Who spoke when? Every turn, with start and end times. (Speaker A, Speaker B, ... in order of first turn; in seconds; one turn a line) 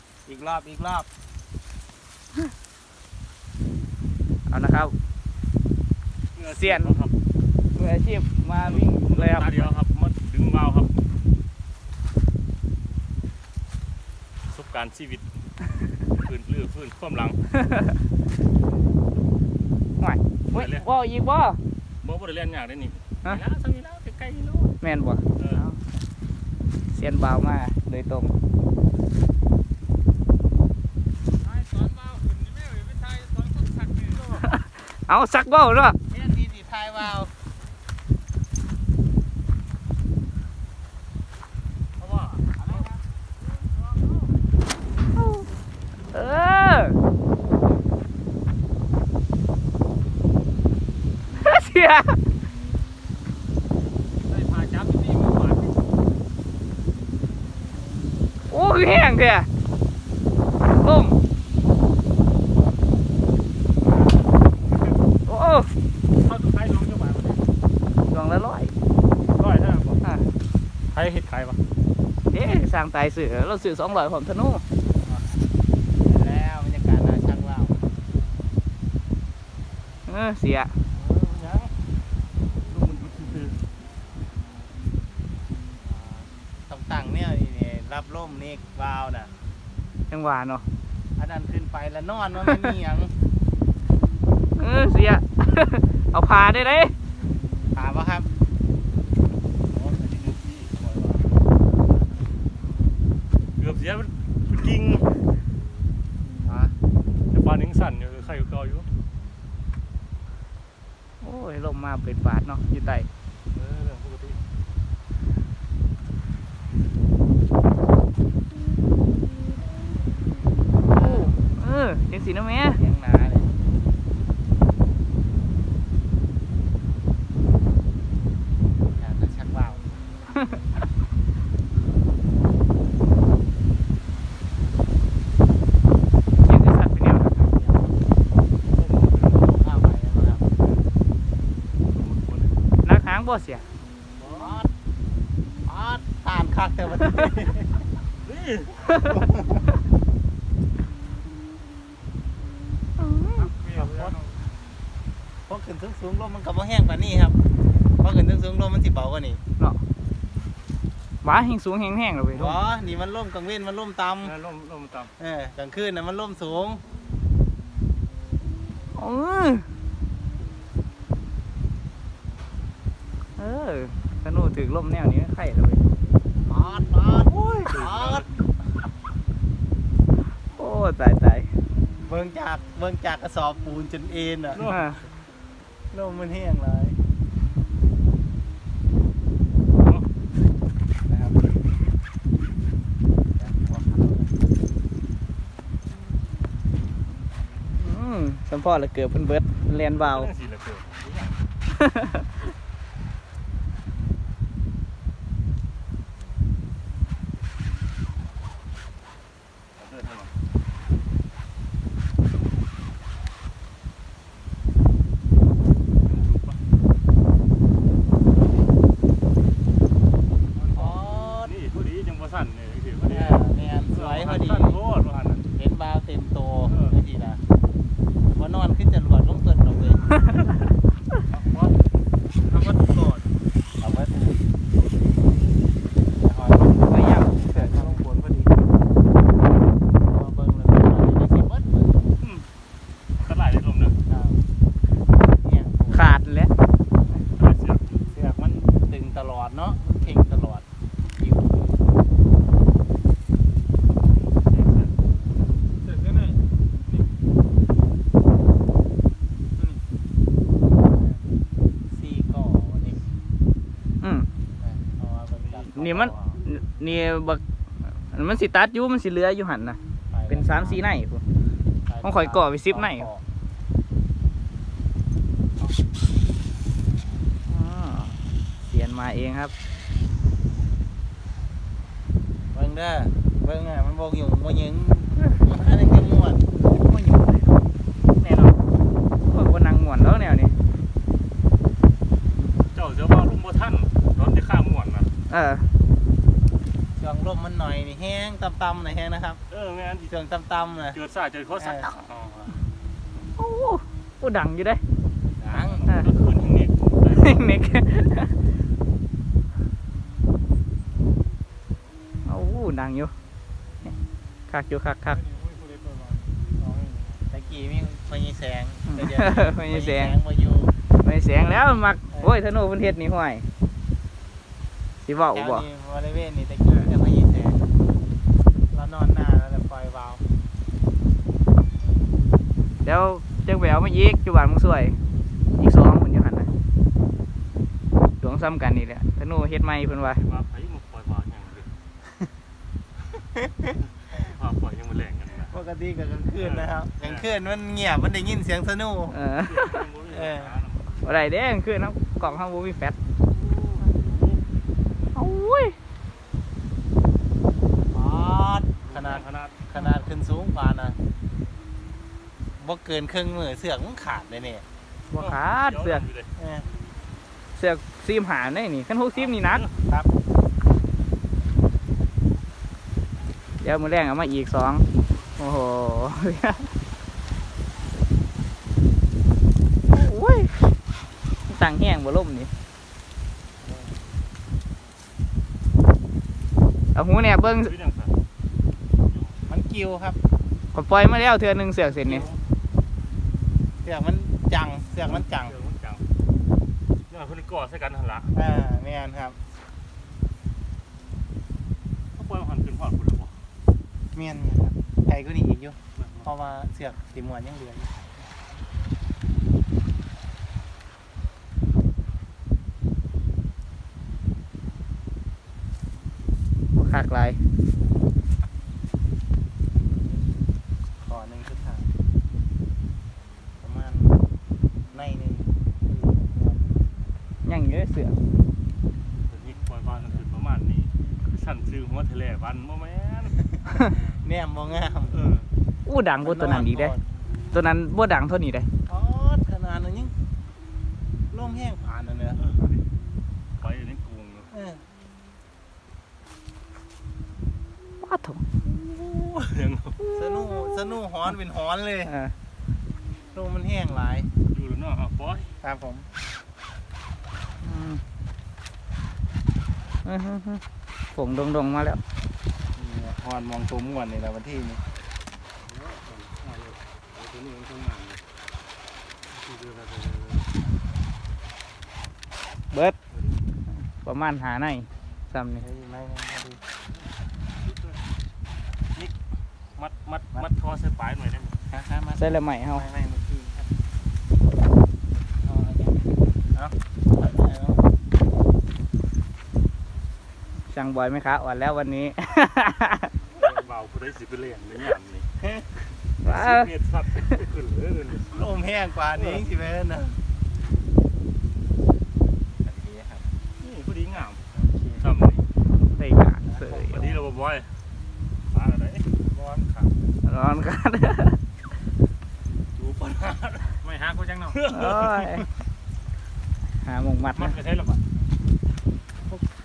Speaker A: 0.2-1.1
Speaker B: 4.5-4.9
Speaker C: 6.3-7.1
Speaker B: 6.5-7.0
Speaker B: 7.7-9.7
Speaker C: 8.6-10.9
Speaker C: 14.4-15.2
Speaker C: 16.0-17.4
Speaker B: 20.0-21.6
Speaker C: 20.5-20.9
Speaker C: 22.0-24.7
Speaker B: 24.8-25.8
Speaker C: 25.4-25.7
Speaker B: 26.9-28.4
Speaker C: 31.6-34.4
Speaker B: 34.4-36.0
Speaker A: 36.1-37.3
Speaker C: 42.0-42.6
Speaker B: 45.1-45.5
Speaker B: 46.1-47.0
Speaker B: 51.3-52.2
Speaker C: 54.2-55.8
Speaker B: 58.5-59.5
Speaker B: 60.7-61.2
Speaker C: 63.9-65.0
Speaker B: 65.3-65.7
Speaker C: 66.2-67.4
Speaker B: 68.1-68.7
Speaker C: 69.3-70.1
Speaker B: 70.0-70.3
Speaker C: 70.9-71.6
Speaker B: 72.3-74.6
Speaker A: 75.0-75.4
Speaker A: 76.0-77.8
Speaker B: 80.1-80.8
Speaker A: 81.0-81.7
Speaker C: 82.7-83.6
Speaker A: 85.8-89.3
Speaker B: 90.1-90.6
Speaker A: 91.2-93.1
Speaker B: 94.6-96.9
Speaker A: 97.7-98.3
Speaker C: 99.7-101.3
Speaker C: 103.6-105.1
Speaker A: 106.4-106.8
Speaker C: 107.3-108.9
Speaker B: 111.2-113.1
Speaker C: 113.5-114.4
Speaker A: 120.9-121.3
Speaker B: 120.9-122.8
Speaker A: 122.7-123.5
Speaker A: 128.9-129.8
Speaker B: 136.4-137.5
Speaker A: 137.5-137.9
Speaker C: 138.7-139.6
Speaker A: 139.3-140.5
Speaker C: 141.9-142.7
Speaker B: 142.8-143.7
Speaker C: 144.2-144.6
Speaker A: 144.4-144.7
Speaker A: 145.6-147.9
Speaker C: 148.2-149.0
Speaker A: 149.0-149.7
Speaker B: 153.0-153.5
Speaker C: 153.5-154.2
Speaker A: 153.7-154.2
Speaker A: 155.5-157.4
Speaker A: 158.0-159.4
Speaker B: 161.2-162.6
Speaker A: 162.3-164.3
Speaker C: 164.2-165.1
Speaker A: 165.2-166.8
Speaker B: 168.9-169.7
Speaker B: 173.4-175.8
Speaker A: 176.4-178.2
Speaker C: 177.7-178.3
Speaker B: 180.5-181.5
Speaker A: 182.1-184.6
Speaker C: 184.5-184.9
Speaker B: 184.6-185.0
Speaker A: 185.9-187.0
Speaker C: 189.8-190.1
Speaker A: 191.1-191.4
Speaker A: 193.4-194.3
Speaker B: 197.8-200.3
Speaker C: 199.9-201.4
Speaker B: 201.9-202.2
Speaker C: 209.8-210.3
Speaker C: 216.0-216.6
Speaker C: 220.6-225.5
Speaker A: 220.7-221.5
Speaker A: 223.1-224.8
Speaker A: 225.6-227.4
Speaker C: 226.7-226.9
Speaker A: 228.3-230.0
Speaker C: 231.2-231.8
Speaker C: 232.5-233.2
Speaker A: 233.8-234.4
Speaker A: 236.2-238.6
Speaker B: 236.7-238.0
Speaker A: 240.0-242.0
Speaker C: 242.2-242.5
Speaker C: 243.2-244.0
Speaker A: 244.1-244.4
Speaker A: 245.4-246.1
Speaker B: 245.9-246.5
Speaker C: 247.2-248.1
Speaker A: 248.1-250.7
Speaker A: 251.2-251.6
Speaker C: 254.2-255.0
Speaker A: 260.9-261.2
Speaker A: 261.9-263.1
Speaker B: 264.0-264.3
Speaker A: 264.6-266.3
Speaker C: 265.4-266.4
Speaker B: 265.7-267.4
Speaker B: 268.0-271.2
Speaker A: 270.1-270.8
Speaker A: 271.9-273.2
Speaker B: 272.0-273.1
Speaker B: 277.5-279.5
Speaker A: 282.5-286.5
Speaker B: 286.7-287.6
Speaker B: 288.2-288.5
Speaker B: 289.2-290.6
Speaker C: 292.7-295.1
Speaker B: 295.3-295.7
Speaker A: 297.0-299.4
Speaker C: 299.5-300.1
Speaker A: 300.1-301.0
Speaker C: 300.9-302.6
Speaker A: 301.6-301.9
Speaker B: 303.4-304.8
Speaker A: 305.4-305.8
Speaker C: 305.5-307.5
Speaker B: 307.1-308.3
Speaker B: 312.2-313.1
Speaker B: 314.5-315.2
Speaker A: 316.6-320.7
Speaker B: 318.9-320.2
Speaker B: 321.0-323.4
Speaker B: 325.0-325.7
Speaker A: 325.1-327.7
Speaker A: 328.7-330.2
Speaker B: 332.8-335.0
Speaker B: 335.6-336.5
Speaker B: 338.2-340.2
Speaker C: 340.1-341.7
Speaker C: 344.0-345.5
Speaker A: 345.5-349.2
Speaker C: 346.4-347.3
Speaker B: 349.1-349.8
Speaker C: 349.4-351.1
Speaker A: 350.1-350.6
Speaker B: 351.0-352.9
Speaker C: 353.7-354.4
Speaker B: 355.1-355.8
Speaker A: 357.9-361.0
Speaker C: 358.9-359.6
Speaker A: 362.6-364.6
Speaker B: 365.1-366.0
Speaker C: 365.1-366.3
Speaker A: 366.4-366.7
Speaker B: 367.6-369.6
Speaker C: 369.1-369.8
Speaker B: 373.6-376.7
Speaker B: 379.9-380.6
Speaker B: 381.5-382.5
Speaker B: 386.9-387.7
Speaker C: 387.6-388.2
Speaker C: 389.1-389.4
Speaker A: 389.4-390.2
Speaker B: 390.7-392.3
Speaker C: 392.0-392.4
Speaker A: 393.8-395.5
Speaker C: 395.1-396.0
Speaker C: 397.1-398.3
Speaker A: 398.3-399.4
Speaker C: 402.1-403.4
Speaker A: 404.1-407.9
Speaker C: 405.9-406.3
Speaker B: 416.8-417.4
Speaker A: 421.0-421.9
Speaker A: 423.6-424.2
Speaker A: 424.9-426.9
Speaker B: 427.4-428.1
Speaker C: 429.3-433.4
Speaker A: 434.0-435.2
Speaker C: 435.1-435.5
Speaker B: 435.9-436.9
Speaker A: 436.2-437.0
Speaker B: 437.5-438.7
Speaker A: 438.9-440.1
Speaker A: 441.3-442.4
Speaker C: 442.4-442.8
Speaker C: 443.6-444.5
Speaker A: 444.5-444.8
Speaker B: 448.0-448.4
Speaker C: 448.8-450.0
Speaker B: 450.0-450.6
Speaker A: 450.1-452.1
Speaker B: 452.0-452.3
Speaker A: 453.3-454.3
Speaker C: 454.5-455.5
Speaker A: 455.6-456.1
Speaker B: 457.6-458.0
Speaker B: 460.0-460.6
Speaker B: 461.1-462.0
Speaker A: 462.8-464.8
Speaker C: 465.6-468.2
Speaker C: 469.3-470.5
Speaker B: 472.7-473.0
Speaker C: 473.1-473.4
Speaker B: 474.0-475.6
Speaker A: 475.6-476.6
Speaker C: 476.9-478.0
Speaker C: 479.8-481.6
Speaker A: 481.7-483.6
Speaker B: 482.1-482.9
Speaker A: 485.3-487.9
Speaker B: 490.7-493.1
Speaker C: 493.3-495.3
Speaker B: 496.2-496.7
Speaker C: 496.2-498.5
Speaker A: 498.3-500.2
Speaker C: 499.1-499.5
Speaker A: 502.6-503.3
Speaker C: 503.6-504.4
Speaker A: 504.5-505.0
Speaker C: 505.0-505.4
Speaker B: 506.0-507.1
Speaker A: 506.5-507.2
Speaker C: 506.9-507.7
Speaker C: 508.5-509.3
Speaker B: 510.2-511.4
Speaker C: 512.8-515.4
Speaker B: 514.7-515.5
Speaker B: 516.8-517.6
Speaker C: 517.4-518.0